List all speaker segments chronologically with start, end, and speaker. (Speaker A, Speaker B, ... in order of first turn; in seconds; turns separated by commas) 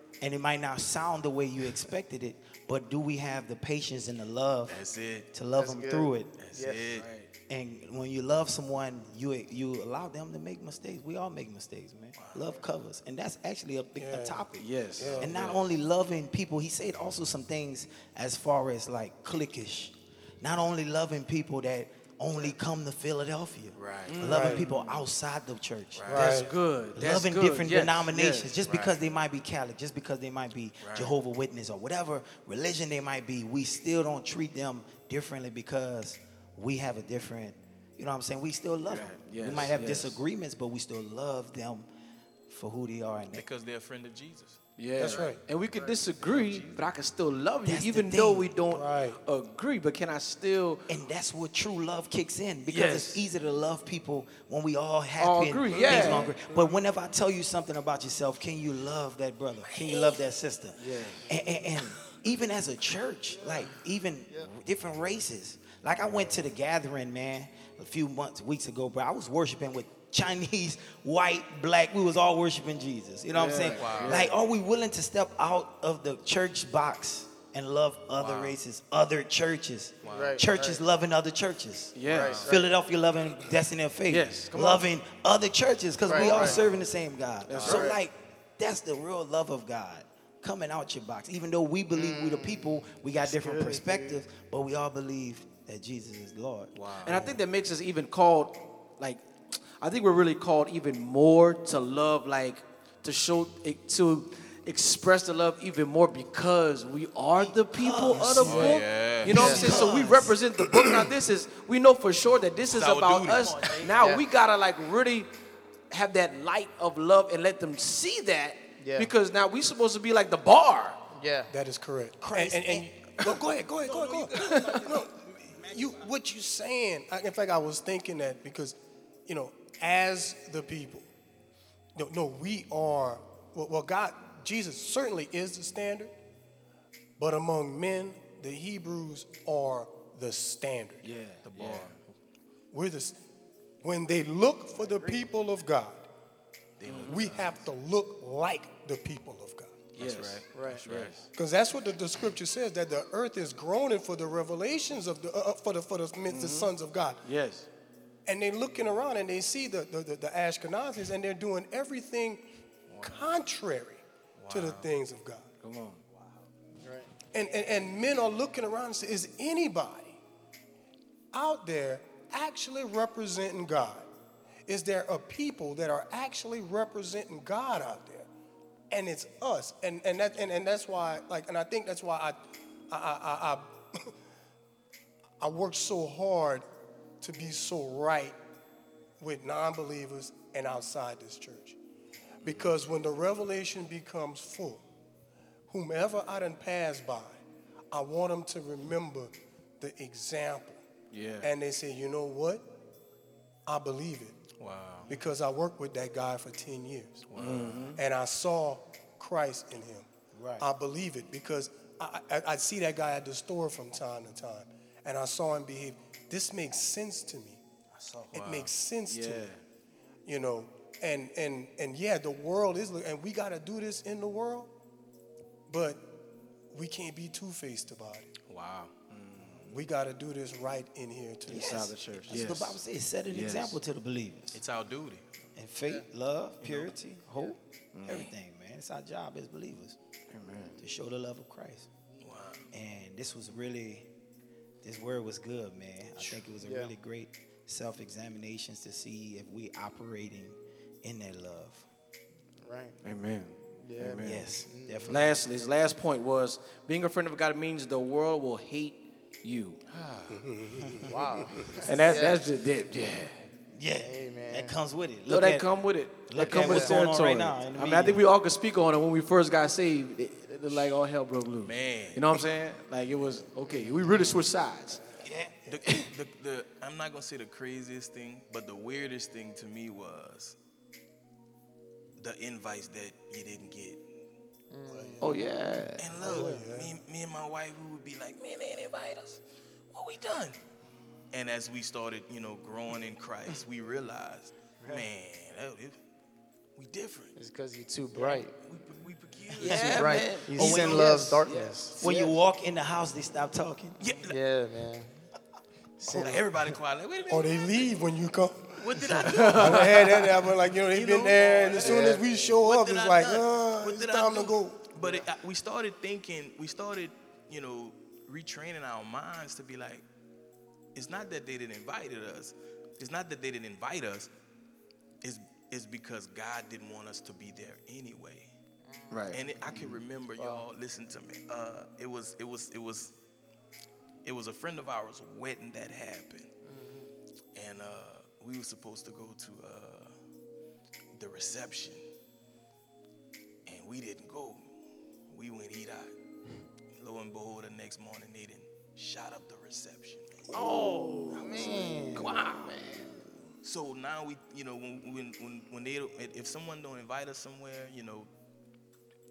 Speaker A: 0.2-4.8, Speaker B: 4.7-5.3, Speaker A: 5.3-6.7, Speaker C: 5.6-6.1, Speaker B: 6.4-7.1, Speaker D: 6.9-7.3, Speaker A: 7.5-26.4, Speaker B: 12.2-12.5, Speaker E: 13.9-14.5, Speaker D: 14.5-15.5, Speaker E: 15.0-15.2, Speaker B: 15.0-15.6, Speaker B: 23.8-24.8, Speaker D: 24.0-24.6, Speaker E: 24.2-24.6, Speaker B: 25.9-26.4, Speaker E: 26.1-26.5, Speaker D: 26.1-28.6, Speaker A: 26.9-41.9, Speaker B: 28.6-28.9, Speaker B: 30.8-31.1, Speaker D: 38.9-40.1, Speaker A: 42.5-43.5, Speaker B: 43.3-46.8, Speaker D: 44.8-50.8, Speaker E: 45.0-45.4, Speaker A: 47.6-48.6, Speaker E: 48.7-49.2, Speaker A: 50.9-97.3, Speaker D: 52.7-53.2, Speaker D: 55.2-56.4, Speaker D: 60.8-61.2, Speaker D: 73.3-74.3, Speaker B: 73.6-74.3, Speaker B: 78.2-78.5, Speaker B: 80.0-80.4, Speaker C: 80.1-80.8, Speaker D: 82.0-82.5, Speaker B: 82.0-82.5, Speaker C: 82.0-82.7, Speaker D: 84.1-84.9, Speaker C: 86.0-86.6, Speaker B: 86.2-86.6, Speaker D: 87.5-88.0, Speaker B: 87.5-87.9, Speaker C: 87.7-88.0, Speaker C: 91.9-94.2, Speaker B: 96.7-97.4, Speaker D: 97.0-99.2, Speaker D: 99.8-115.3, Speaker A: 107.7-110.4, Speaker B: 108.4-109.9, Speaker C: 109.3-109.9, Speaker B: 112.7-113.8, Speaker A: 113.3-114.0, Speaker C: 114.0-114.2, Speaker D: 115.9-121.0, Speaker C: 118.8-119.1, Speaker C: 121.1-121.5, Speaker E: 121.5-131.1, Speaker A: 122.2-126.0, Speaker D: 124.5-124.9, Speaker E: 131.9-136.1, Speaker E: 137.2-141.1, Speaker D: 141.0-141.9, Speaker B: 141.4-142.0, Speaker E: 142.7-143.2, Speaker E: 143.8-146.1, Speaker B: 146.8-147.5, Speaker D: 146.8-147.4, Speaker E: 146.9-149.9, Speaker D: 149.9-151.2, Speaker B: 150.0-151.2, Speaker C: 150.5-150.8, Speaker E: 151.3-157.2, Speaker D: 156.3-156.7, Speaker D: 157.2-157.7, Speaker E: 158.2-162.4, Speaker D: 163.0-163.3, Speaker E: 163.0-165.6, Speaker B: 164.4-164.8, Speaker D: 165.6-166.0, Speaker C: 166.8-167.1, Speaker E: 167.3-170.2, Speaker E: 171.3-174.1, Speaker E: 174.7-178.3, Speaker E: 178.9-184.1, Speaker E: 185.4-186.7, Speaker E: 187.2-188.4, Speaker E: 189.2-191.8, Speaker E: 192.4-194.8, Speaker E: 195.7-200.8, Speaker B: 201.1-201.5, Speaker E: 201.4-202.7, Speaker E: 203.7-204.4, Speaker B: 204.6-205.1, Speaker E: 205.1-207.2, Speaker B: 207.3-207.9, Speaker D: 207.4-208.0, Speaker A: 207.4-207.8, Speaker E: 207.9-210.1, Speaker A: 210.3-210.7, Speaker E: 210.6-217.6, Speaker A: 217.9-218.4, Speaker E: 218.3-219.5, Speaker B: 218.3-218.7, Speaker D: 219.1-219.6, Speaker E: 220.2-224.7, Speaker E: 225.7-226.1, Speaker E: 226.7-228.3, Speaker B: 228.5-228.9, Speaker D: 229.1-229.7, Speaker E: 229.7-232.0, Speaker D: 231.5-232.8, Speaker A: 231.5-234.6, Speaker D: 233.3-233.8, Speaker B: 234.5-235.2, Speaker A: 235.5-240.0, Speaker B: 236.6-236.9, Speaker D: 237.9-238.3, Speaker D: 240.3-240.8, Speaker A: 240.8-241.9, Speaker B: 242.2-242.7, Speaker A: 242.7-244.1, Speaker A: 244.8-251.9, Speaker C: 246.2-246.9, Speaker C: 252.6-253.0, Speaker D: 253.0-254.6, Speaker C: 253.8-255.2, Speaker A: 254.2-255.3, Speaker D: 255.1-259.8, Speaker B: 259.9-260.4, Speaker E: 260.3-261.8, Speaker A: 260.8-261.1, Speaker C: 261.0-262.4, Speaker D: 261.8-263.4, Speaker A: 263.7-268.2, Speaker C: 264.0-264.8, Speaker D: 265.3-275.0, Speaker C: 266.5-267.0, Speaker B: 271.6-272.4, Speaker A: 275.2-275.5, Speaker B: 275.6-280.6, Speaker B: 282.2-284.2, Speaker C: 284.7-285.4, Speaker D: 285.2-286.4, Speaker B: 286.0-290.6, Speaker E: 286.1-286.9, Speaker B: 291.3-296.0, Speaker B: 296.8-297.3, Speaker C: 297.4-298.5, Speaker B: 298.2-302.2, Speaker A: 299.5-301.4, Speaker D: 299.6-301.0, Speaker C: 299.6-302.3, Speaker A: 302.0-304.0, Speaker B: 304.0-304.4, Speaker C: 304.3-305.2, Speaker C: 306.0-306.4, Speaker B: 306.0-308.2, Speaker E: 306.2-306.4, Speaker E: 307.3-314.9, Speaker B: 308.8-320.0, Speaker D: 309.2-309.9, Speaker C: 311.8-312.2, Speaker B: 320.9-324.3, Speaker B: 325.2-328.5, Speaker C: 328.9-329.2, Speaker D: 329.1-329.9, Speaker B: 329.3-333.1, Speaker C: 330.4-330.6, Speaker B: 334.2-336.5, Speaker C: 336.6-337.1, Speaker B: 337.5-340.2, Speaker B: 341.1-342.0, Speaker B: 343.6-344.7, Speaker B: 345.3-346.1, Speaker B: 346.9-350.6, Speaker D: 350.5-353.0, Speaker C: 351.3-352.2, Speaker A: 351.6-352.1, Speaker B: 353.6-358.3